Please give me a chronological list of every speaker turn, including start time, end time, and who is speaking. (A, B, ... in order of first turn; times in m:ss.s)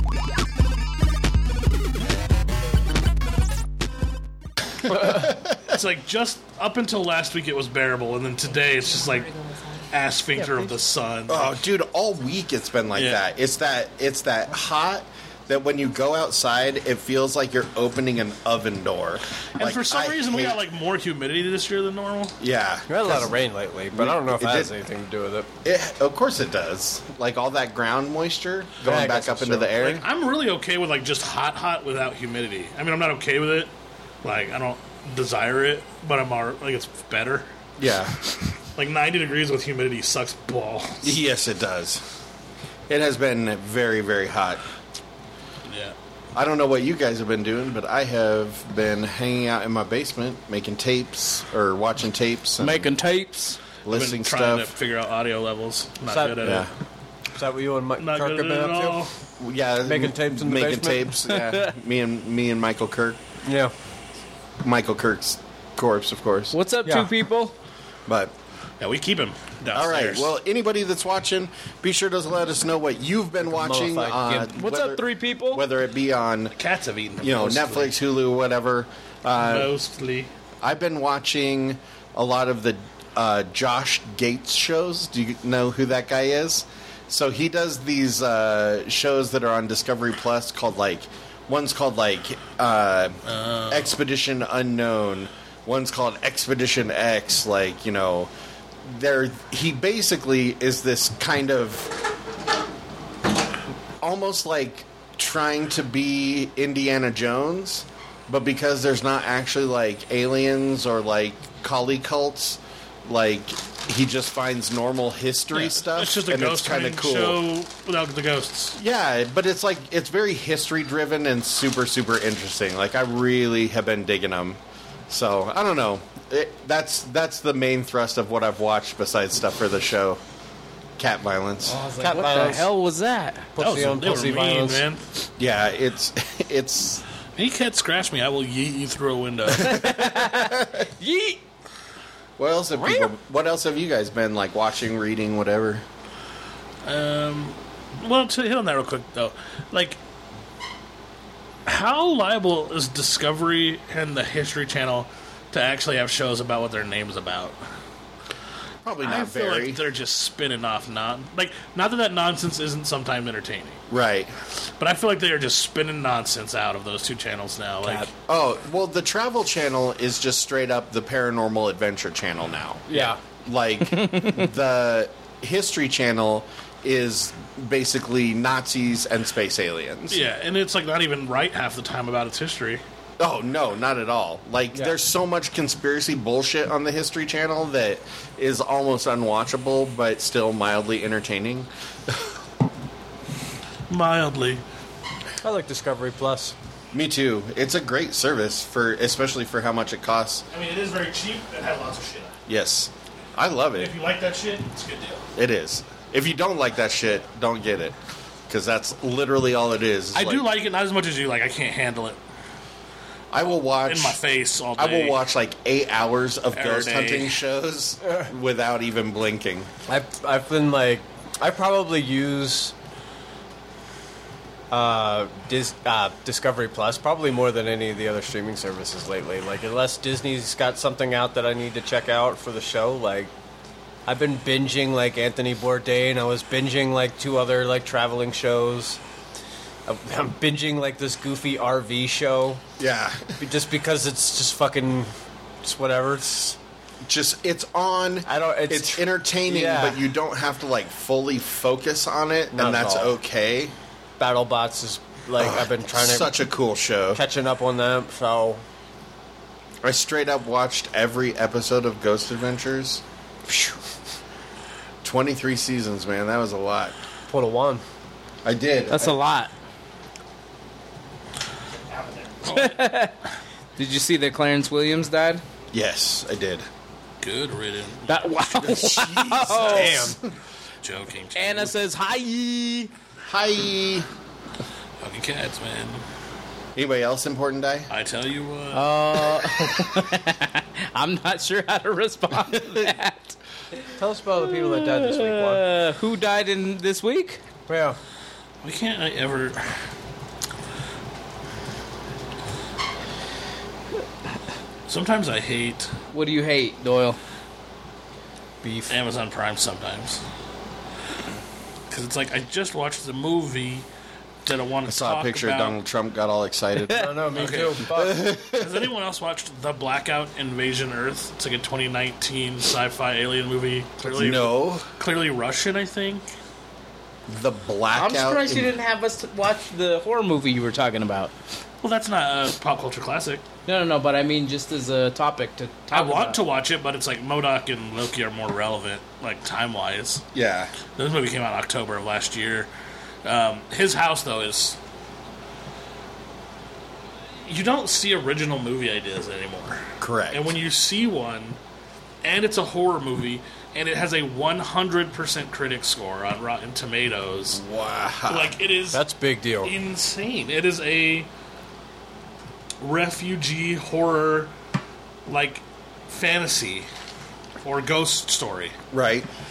0:04.8-0:05.6 A
0:05.1-0:11.6 B
0:11.3-0:20.6 A
0:13.0-0:13.2 B
0:19.6-0:22.4 B
0:22.4-0:23.3 A
0:22.9-0:25.5 C
0:23.9-0:24.7 A
0:25.6-0:30.0 A
0:28.8-0:29.7 C
0:29.8-0:33.7 B
0:34.2-0:37.5 B
0:37.8-0:38.6 A
0:38.8-0:41.1 B
0:41.0-0:42.0 A
0:42.9-0:44.6 A
0:45.7-0:46.0 B
0:46.4-0:52.9 A
0:52.6-0:53.6 D
0:53.8-0:54.7 A
0:53.9-0:56.7 B
0:56.1-0:56.7 C
0:56.4-0:56.7 A
0:57.4-0:59.0 C
0:58.0-0:59.1 B
0:59.4-1:03.2 A
0:59.8-1:01.1 C
1:01.3-1:01.7 D
1:03.4-1:03.7 C
1:04.6-1:06.6 A
1:06.5-1:07.6 D
1:08.1-1:08.3 A
1:08.8-1:10.3 B
1:09.7-1:16.6 A
1:13.4-1:14.3 C
1:14.3-1:15.6 D
1:16.6-1:17.9 B
1:17.2-1:19.7 A
1:19.4-1:20.3 B
1:20.6-1:38.3 A
1:33.3-1:33.9 B
1:38.8-1:41.9 A
1:44.0-1:57.4 A
1:55.5-1:58.8 B
1:58.8-2:10.2 A
2:11.0-2:11.8 A
2:11.6-2:13.5 D
2:12.0-2:12.7 C
2:13.6-2:14.8 C
2:13.6-2:15.1 B
2:15.4-2:17.0 A
2:17.4-2:20.0 B
2:19.5-2:20.8 A
2:19.6-2:21.4 D
2:22.4-2:25.8 A
2:22.8-2:23.1 D
2:26.8-2:30.0 B
2:31.7-2:37.6 B
2:38.8-2:39.8 A
2:39.0-2:43.8 B
2:43.9-2:44.3 A
2:44.8-2:48.1 B
2:47.8-2:48.1 C
2:48.3-3:00.2 A
2:52.9-2:53.2 C
2:54.0-2:54.4 D
3:00.1-3:02.8 B
3:03.2-3:12.3 A
3:13.9-3:14.6 B
3:15.4-3:16.6 C
3:16.9-3:20.4 A
3:20.5-3:22.4 B
3:22.5-3:23.9 A
3:23.8-3:25.3 B
3:25.4-3:28.0 A
3:28.5-3:30.5 A
3:30.1-3:32.2 B
3:33.3-3:34.2 A
3:33.7-3:35.2 B
3:34.8-3:39.7 A
3:36.5-3:37.4 B
3:39.9-3:42.8 C
3:44.7-3:53.3 C
3:54.1-3:59.0 C
3:59.9-4:02.6 C
4:02.8-4:03.4 A
4:03.4-4:05.1 C
4:05.6-4:06.6 C
4:07.0-4:13.7 A
4:08.3-4:10.0 C
4:12.5-4:13.2 C
4:14.2-4:16.4 C
4:15.4-4:17.2 A
4:17.1-4:18.6 C
4:19.8-4:23.8 A
4:25.0-4:27.0 A
4:27.3-4:27.8 C
4:28.4-4:29.2 A
4:28.9-4:29.5 D
4:32.0-4:32.8 B
4:32.4-4:33.2 D
4:33.8-4:35.4 D
4:35.7-4:36.7 A
4:37.2-4:38.2 B
4:38.1-4:40.2 D
4:38.5-4:40.2 A
4:39.5-4:40.0 B
4:40.8-4:41.7 B
4:41.4-4:42.9 D
4:43.2-4:44.1 A
4:45.0-4:46.0 B
4:46.8-4:47.9 A
4:47.9-4:49.4 B
4:48.7-4:53.4 D
4:54.0-4:55.6 C
4:54.5-4:57.4 D
4:57.7-4:58.0 C
4:58.6-4:59.8 B
5:04.9-5:05.9 B
5:06.1-5:07.2 D
5:08.6-5:08.9 C
5:08.9-5:10.2 B
5:11.9-5:13.9 B
5:14.4-5:15.8 B
5:14.9-5:17.1 A
5:16.9-5:18.3 C
5:17.3-5:17.8 B
5:17.9-5:18.9 A
5:18.5-5:26.2 B
5:24.0-5:24.9 A
5:27.3-5:28.7 A
5:28.0-5:31.3 D
5:31.8-5:33.4 B
5:33.7-5:36.4 D
5:35.9-5:40.2 B
5:40.3-5:40.7 A
5:41.0-5:42.7 B
5:43.2-5:44.8 B
5:47.4-5:51.6 B
5:50.0-5:50.5 A
5:52.2-5:57.6 B
5:57.5-5:58.6 A
5:58.3-5:59.0 B
5:58.9-5:59.7 C
5:59.6-6:01.3 B
6:02.8-6:04.5 B
6:05.3-6:06.9 B
6:07.6-6:08.8 B
6:08.9-6:09.3 A